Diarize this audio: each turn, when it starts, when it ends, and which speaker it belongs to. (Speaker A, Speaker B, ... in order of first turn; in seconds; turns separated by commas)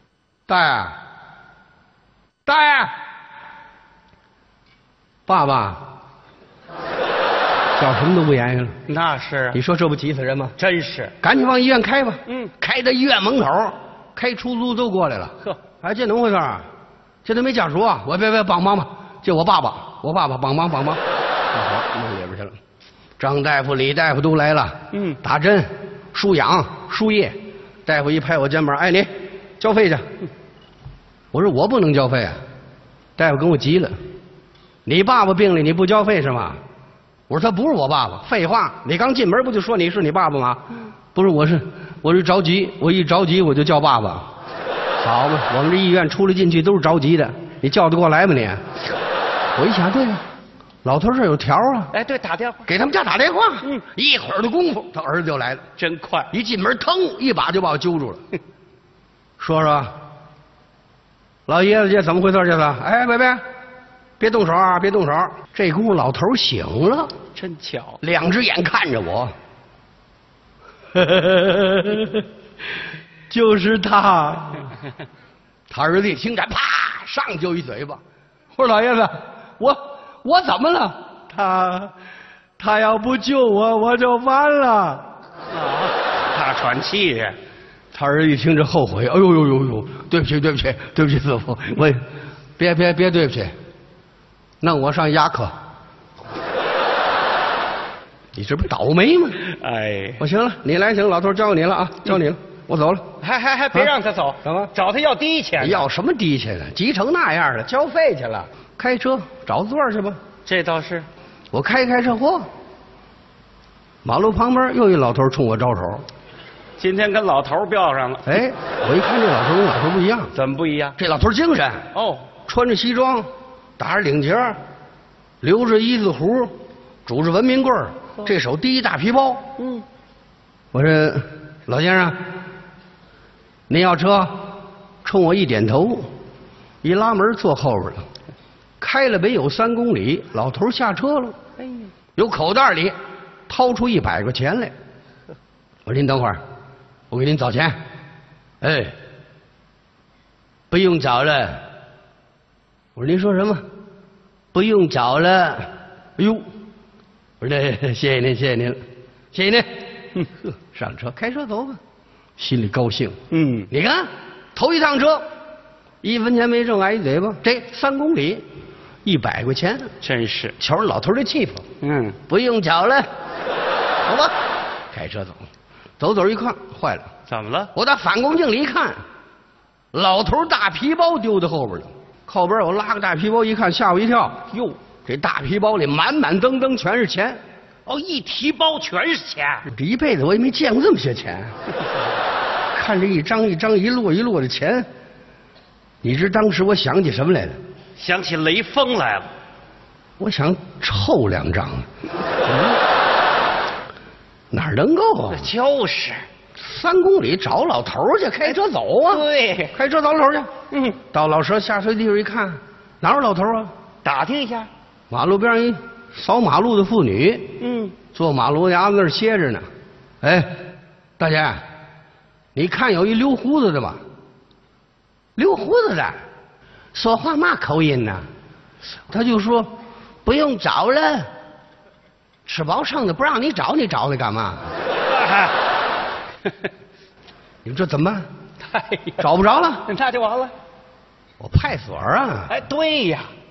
Speaker A: 0.5-1.0, Speaker A: 2.5-3.0, Speaker A: 5.2-5.9, Speaker A: 7.8-8.8, Speaker B: 8.9-9.6, Speaker A: 9.5-10.6, Speaker B: 10.6-11.1, Speaker A: 11.2-16.6, Speaker A: 17.2-22.6, Speaker A: 23.2-30.0, Speaker B: 24.9-25.2, Speaker A: 31.3-32.4, Speaker A: 33.2-33.9, Speaker A: 34.8-36.6, Speaker A: 37.3-44.3, Speaker A: 45.0-48.6, Speaker A: 49.5-50.2, Speaker A: 50.8-51.9, Speaker B: 51.9-52.7, Speaker A: 52.7-55.6, Speaker B: 55.8-56.3, Speaker A: 56.3-58.2, Speaker A: 59.4-59.9, Speaker A: 61.5-63.4, Speaker A: 64.2-67.1, Speaker B: 67.3-68.0, Speaker A: 68.0-69.3, Speaker A: 70.9-72.2, Speaker A: 73.3-74.7, Speaker A: 75.7-78.0, Speaker A: 78.5-81.9, Speaker A: 82.6-85.1, Speaker B: 85.5-87.3, Speaker A: 87.9-92.0, Speaker A: 92.6-93.5, Speaker A: 94.6-95.5, Speaker A: 98.3-99.4, Speaker B: 99.5-100.2, Speaker A: 100.2-103.0, Speaker B: 103.2-105.9, Speaker A: 104.4-104.7, Speaker A: 105.6-110.2, Speaker B: 110.5-111.1, Speaker A: 111.5-112.5, Speaker A: 114.0-116.0, Speaker B: 116.8-118.4, Speaker A: 118.2-120.3, Speaker B: 120.3-121.0, Speaker A: 121.0-121.9, Speaker B: 121.9-122.3, Speaker A: 122.5-124.6, Speaker A: 125.4-126.5, Speaker A: 127.0-129.5, Speaker B: 129.6-129.8, Speaker A: 130.7-132.2, Speaker A: 133.7-134.5, Speaker A: 135.0-136.1, Speaker A: 136.8-138.1, Speaker A: 138.8-141.3, Speaker B: 141.6-141.9, Speaker A: 142.2-142.9, Speaker A: 143.5-144.7, Speaker A: 145.8-146.4, Speaker A: 147.1-147.8, Speaker A: 148.6-148.9, Speaker A: 150.7-151.6, Speaker A: 152.9-153.6, Speaker A: 154.5-156.5, Speaker A: 157.4-158.8, Speaker A: 159.3-159.7, Speaker A: 160.7-161.8, Speaker A: 162.4-163.2, Speaker B: 163.3-163.7, Speaker A: 163.7-165.2, Speaker A: 166.0-168.4, Speaker A: 169.0-169.9, Speaker B: 170.0-170.5, Speaker A: 170.6-171.7, Speaker B: 171.8-172.2, Speaker A: 172.3-173.1, Speaker A: 174.1-174.3, Speaker A: 174.9-175.4, Speaker A: 176.0-177.1, Speaker B: 177.3-177.7, Speaker A: 177.7-179.0, Speaker A: 179.9-184.4, Speaker B: 184.5-184.8, Speaker A: 185.1-187.4, Speaker B: 187.8-189.7, Speaker A: 189.7-191.5, Speaker A: 192.7-194.9, Speaker A: 196.0-197.6, Speaker B: 198.0-199.3, Speaker A: 200.2-201.9, Speaker A: 204.5-205.5, Speaker B: 205.3-206.2, Speaker A: 206.6-210.5, Speaker B: 209.1-209.7, Speaker B: 210.7-211.0, Speaker A: 211.1-213.7, Speaker B: 214.0-214.7, Speaker A: 215.1-217.5, Speaker B: 217.6-217.9, Speaker A: 218.1-219.7, Speaker A: 220.2-220.5, Speaker A: 221.2-221.6, Speaker A: 222.5-224.0, Speaker A: 225.3-226.2, Speaker A: 226.9-228.2, Speaker A: 229.1-229.7, Speaker A: 230.2-231.3, Speaker A: 232.4-234.7, Speaker B: 235.1-235.5, Speaker A: 237.6-238.3, Speaker B: 238.6-239.2, Speaker A: 239.2-239.8, Speaker B: 239.8-240.5, Speaker A: 241.4-242.5, Speaker B: 242.5-243.3